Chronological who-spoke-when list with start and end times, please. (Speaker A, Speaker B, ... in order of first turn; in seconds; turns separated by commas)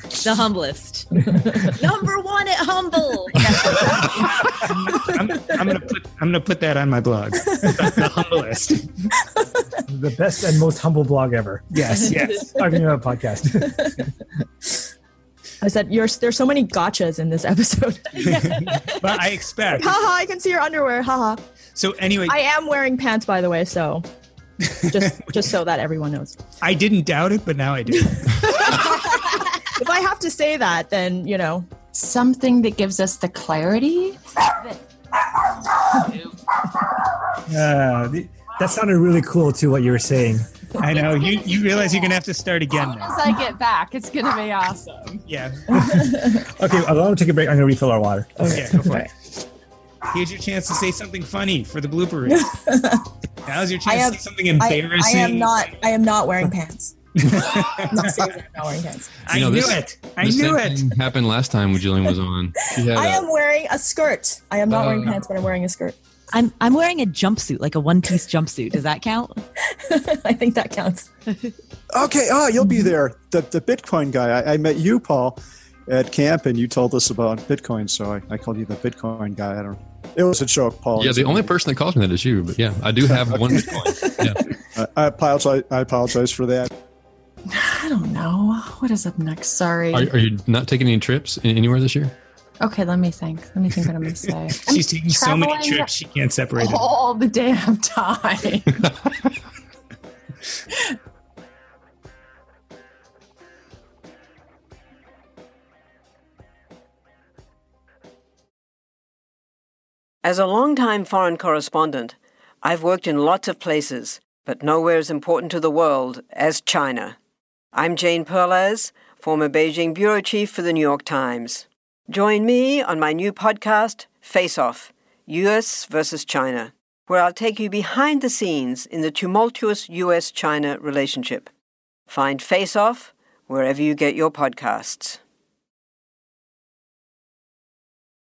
Speaker A: 0.2-3.8, Speaker B: 1.3-1.6, Speaker C: 3.5-5.6, Speaker D: 3.6-9.1, Speaker B: 9.9-14.0, Speaker D: 11.7-12.5, Speaker C: 12.0-12.8, Speaker C: 15.6-21.4, Speaker D: 18.2-19.9, Speaker D: 21.8-22.4, Speaker C: 22.3-24.1, Speaker D: 24.6-25.4, Speaker C: 24.9-26.4, Speaker D: 26.6-29.1, Speaker C: 27.9-31.7, Speaker E: 31.9-34.5, Speaker E: 36.0-36.3, Speaker B: 37.5-40.7, Speaker D: 40.8-43.3, Speaker E: 40.9-42.2, Speaker E: 42.7-45.3, Speaker D: 45.3-46.1, Speaker B: 45.8-48.9, Speaker C: 45.9-46.5, Speaker C: 48.4-49.0, Speaker D: 48.4-49.1, Speaker D: 50.1-52.7, Speaker C: 52.3-53.1, Speaker D: 53.5-55.6, Speaker C: 53.9-59.8, Speaker D: 57.2-58.4, Speaker D: 59.3-60.9, Speaker F: 59.3-63.2, Speaker C: 62.8-66.0, Speaker F: 64.7-65.2, Speaker A: 66.3-69.4, Speaker C: 69.7-71.1, Speaker G: 71.9-81.5, Speaker C: 72.6-72.9, Speaker F: 81.0-84.4, Speaker G: 83.1-84.2, Speaker G: 84.7-86.7, Speaker E: 87.5-90.1, Speaker F: 89.9-92.1, Speaker E: 92.6-95.9, Speaker D: 94.6-96.8, Speaker E: 96.6-98.8, Speaker E: 100.7-101.0, Speaker H: 110.2-117.2, Speaker H: 117.7-131.5, Speaker H: 132.1-135.2